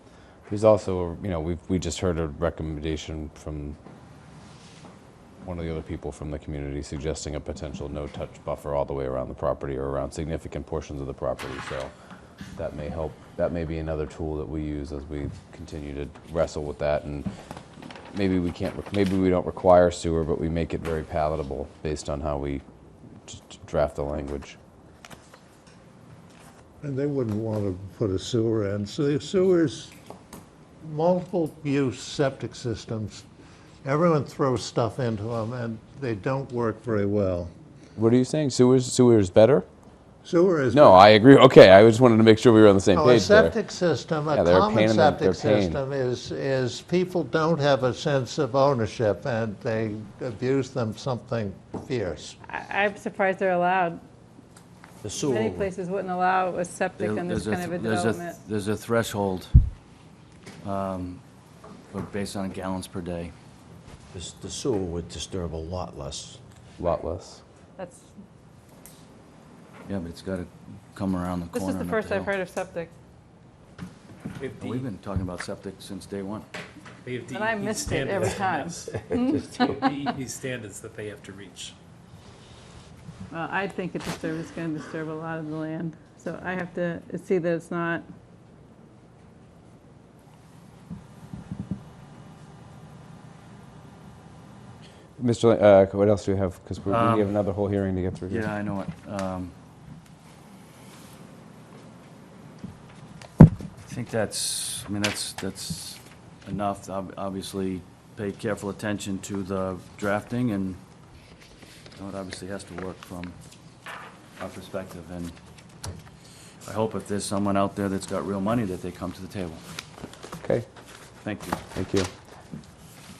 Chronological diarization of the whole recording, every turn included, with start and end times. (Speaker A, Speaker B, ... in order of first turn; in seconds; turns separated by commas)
Speaker A: 0.5-3.8, Speaker A: 5.4-11.9, Speaker A: 12.6-17.3, Speaker A: 17.8-22.6, Speaker A: 23.2-24.6, Speaker B: 26.8-29.9, Speaker B: 30.8-33.2, Speaker B: 33.8-37.5, Speaker A: 38.0-39.6, Speaker B: 40.2-41.0, Speaker A: 40.7-43.6, Speaker B: 42.9-52.4, Speaker A: 44.3-45.8, Speaker C: 52.5-54.0, Speaker D: 55.0-55.7, Speaker C: 55.1-58.4, Speaker E: 57.0-59.6, Speaker E: 60.6-61.2, Speaker E: 61.9-63.3, Speaker D: 64.1-66.4, Speaker A: 66.8-67.4, Speaker C: 67.8-68.1, Speaker E: 69.8-72.3, Speaker C: 71.5-72.9, Speaker E: 74.6-76.5, Speaker F: 77.0-81.7, Speaker C: 77.3-80.0, Speaker C: 83.3-88.0, Speaker A: 95.2-98.5, Speaker E: 96.9-97.3, Speaker E: 98.3-99.5, Speaker E: 103.8-110.8, Speaker E: 112.0-113.4, Speaker E: 114.4-115.3, Speaker E: 116.6-119.6, Speaker E: 121.2-121.6, Speaker A: 121.7-122.1